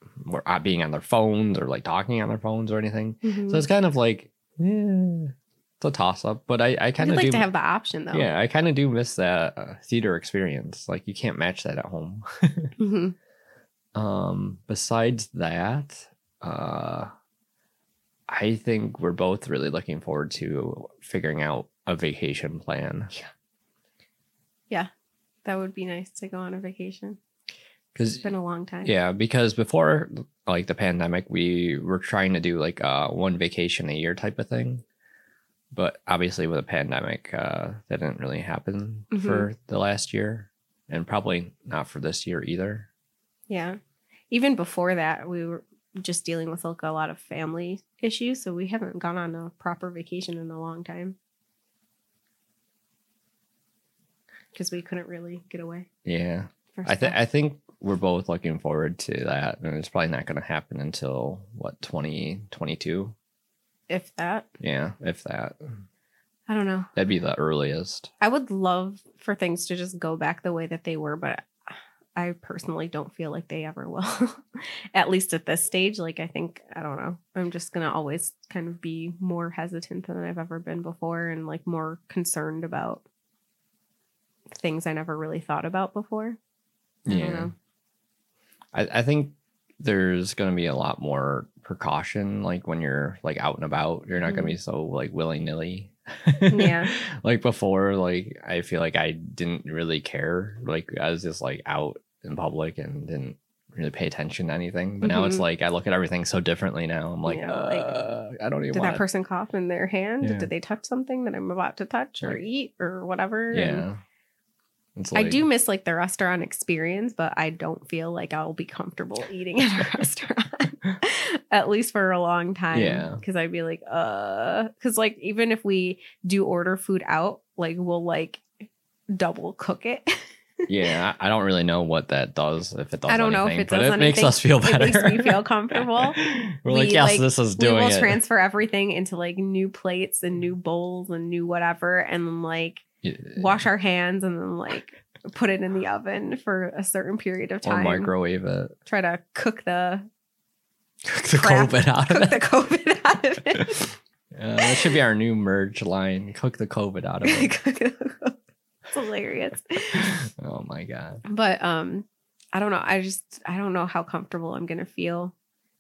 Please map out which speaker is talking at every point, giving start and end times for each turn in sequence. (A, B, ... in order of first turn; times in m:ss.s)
0:00.2-0:07.5 A
0:03.2-0:03.6 B
0:07.0-0:08.3 B
0:08.1-0:12.7 A
0:12.8-0:13.2 B
0:14.0-0:17.1 A
0:18.3-0:23.1 A
0:25.4-0:27.2 B
0:28.0-0:28.3 A
0:28.2-0:28.9 B
0:28.8-0:34.8 A
0:35.7-0:42.9 A
0:39.1-0:39.5 B
0:43.5-0:43.8 B
0:44.3-0:51.2 B
0:54.5-0:55.9 B
0:56.0-1:03.2 A
0:56.7-0:57.2 B
1:03.9-1:04.5 B
1:04.6-1:05.8 A
1:06.5-1:06.9 B
1:07.0-1:08.1 A
1:08.2-1:23.0 B
1:24.6-1:26.4 B
1:27.0-1:27.5 A
1:27.1-1:27.5 B
1:28.7-1:49.0 A
1:34.2-1:34.6 B
1:36.5-1:36.9 B
1:45.0-1:45.4 B
1:47.3-1:48.0 B
1:48.7-1:53.9 B
1:50.2-1:50.5 A
1:53.5-1:54.0 A
1:55.0-1:55.4 A
1:55.2-2:08.4 B
2:02.7-2:03.2 A
2:09.1-2:10.9 B
2:10.7-2:18.2 A
2:13.1-2:28.1 B
2:23.0-2:23.6 A
2:27.6-2:28.8 A
2:28.9-2:30.1 B
2:31.1-2:32.4 A
2:31.3-2:33.9 B
2:34.3-2:37.5 A
2:34.6-2:34.9 B
2:37.2-2:38.4 B
2:38.9-2:40.2 B
2:39.9-2:41.2 A
2:41.2-2:45.3 B